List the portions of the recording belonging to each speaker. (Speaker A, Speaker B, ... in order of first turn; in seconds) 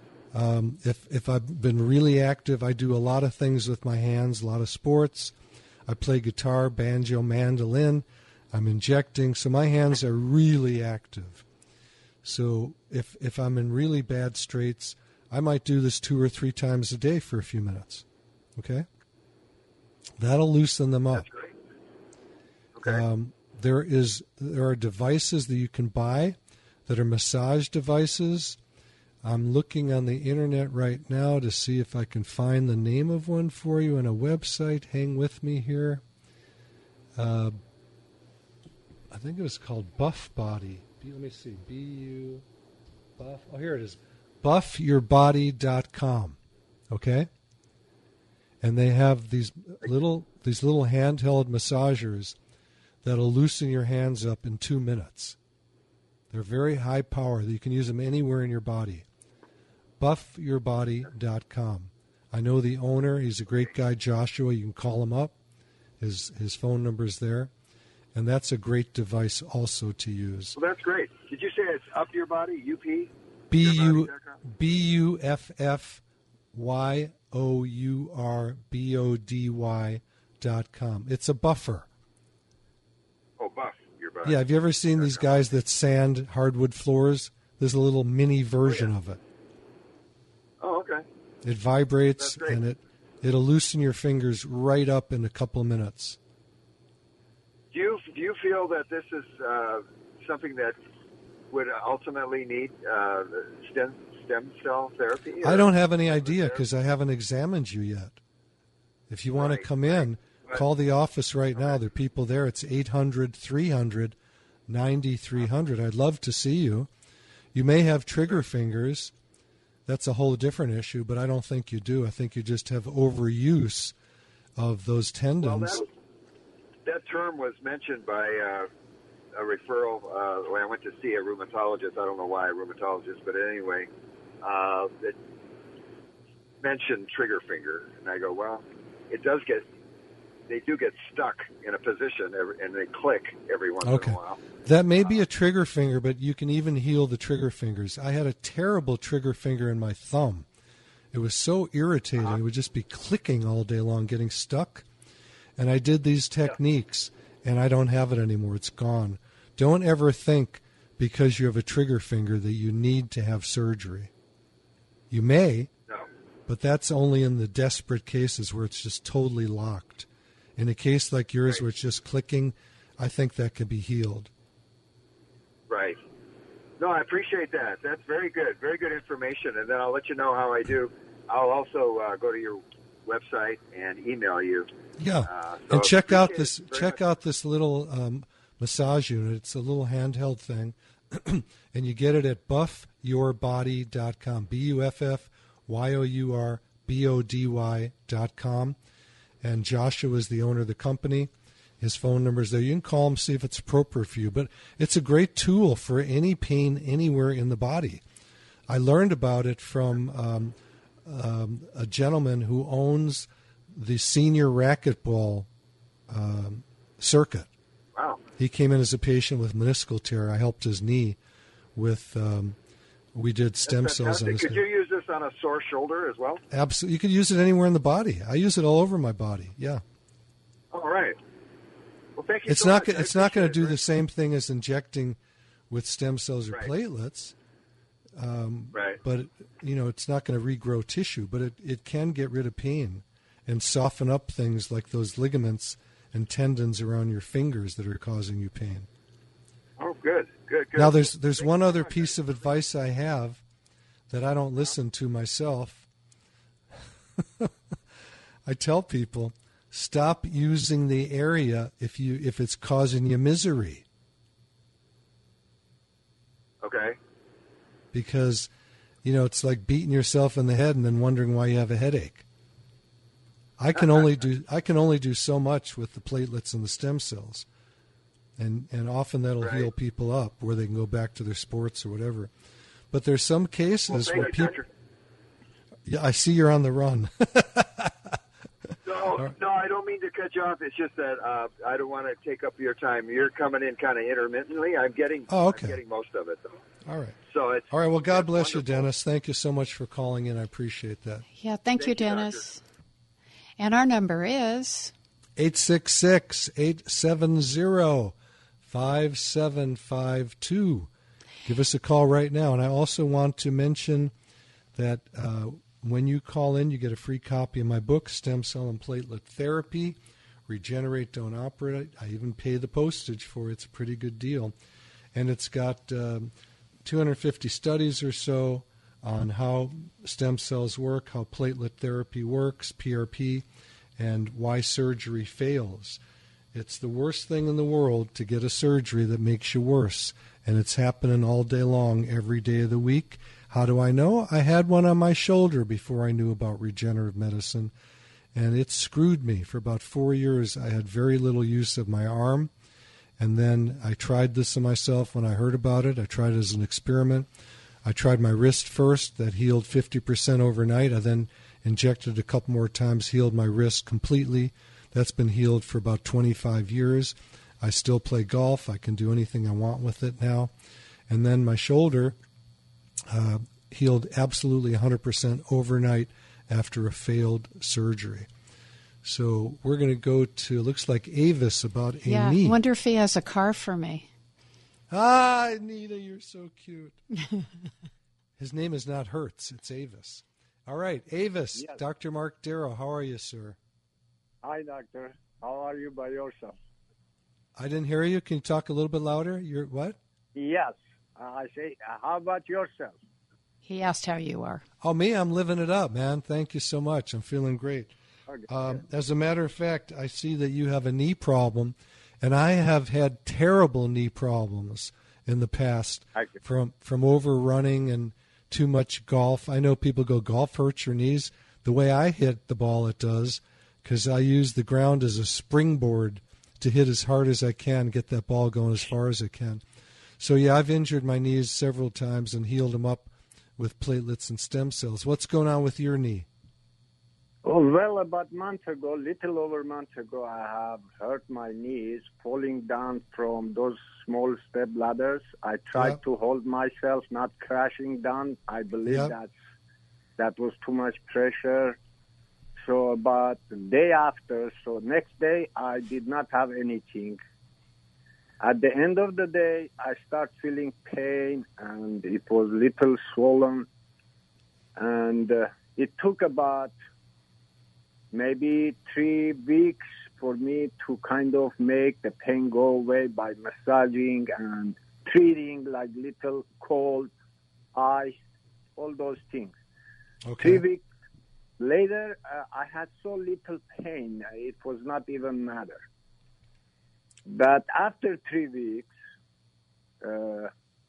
Speaker A: 0.3-5.3, 5.8-11.4, 12.2-18.0, 18.6-18.9, 20.2-21.2, 22.8-28.6, 29.2-36.0, 37.1-37.5, 39.1-42.4, 43.2-46.4, 46.9-47.3, 48.6-52.4, 53.0-55.4, 56.3-59.0, 60.0-65.3, 66.0-67.5, 68.1-70.6, 73.5-81.9, 84.2-89.2, 91.4-96.2, 105.4-108.2, 109.1-114.2, 114.7-116.9, 117.5-119.1, 119.8-123.9, 124.6-125.8, 143.8-150.5, 151.1-154.8, 155.6-164.1, 165.1-165.7, 166.5-174.3, 185.0-198.8, 199.4-208.0, 208.7-215.5, 216.1-217.5, 218.4-221.2, 221.7-222.6, 223.1-224.6, 226.5-229.8, 232.4-235.2, 235.7-237.3, 238.2-248.9, 250.7-253.4, 254.1-255.8, 257.2-257.5, 258.4-263.8, 267.9-268.5, 269.0-272.2, 273.6-277.4, 278.4-282.3, 282.9-284.6, 285.9-288.2, 295.3-295.8, 296.8-297.2, 297.7-301.2, 305.4-310.9, 311.4-314.1, 314.7-324.5, 325.1-326.3, 326.8-333.4, 334.0-336.0, 336.5-347.7, 348.3-352.5, 353.2-357.3, 357.8-370.5, 371.1-372.1, 373.1-378.3, 379.0-382.6, 384.9-387.0, 388.4-393.6, 397.6-400.0, 404.8-407.9, 408.5-429.6, 430.2-436.3, 448.9-449.1, 480.2-480.6
Speaker B: 21.1-21.5, 22.8-23.0, 70.5-74.4, 83.4-84.4, 85.0-85.3, 88.7-88.9, 90.6-91.0, 92.2-92.6, 97.7-100.8, 101.5-106.6, 109.3-110.6, 125.4-125.9, 126.8-128.7, 129.3-133.9, 134.4-135.2, 136.6-139.7, 140.5-144.4, 175.7-176.0, 176.8-184.7, 185.2-187.0, 217.9-218.2, 223.7-226.4, 230.7-231.2, 232.2-233.8, 238.7-239.0, 249.8-252.1, 266.6-267.0, 279.4-279.7, 283.9-284.7, 288.8-296.5, 297.3-298.9, 301.7-302.4
Speaker C: 301.4-302.6, 303.6-304.9, 382.0-384.1, 403.6-404.6
Speaker D: 394.4-396.5, 400.3-403.0, 408.3-408.8, 437.4-449.3, 450.2-451.8, 452.6-457.2, 458.4-463.7, 464.8-466.7, 468.1-477.1, 477.7-478.1, 478.8-479.6, 480.4-480.8, 481.6-485.8, 487.3-488.9, 490.0-490.5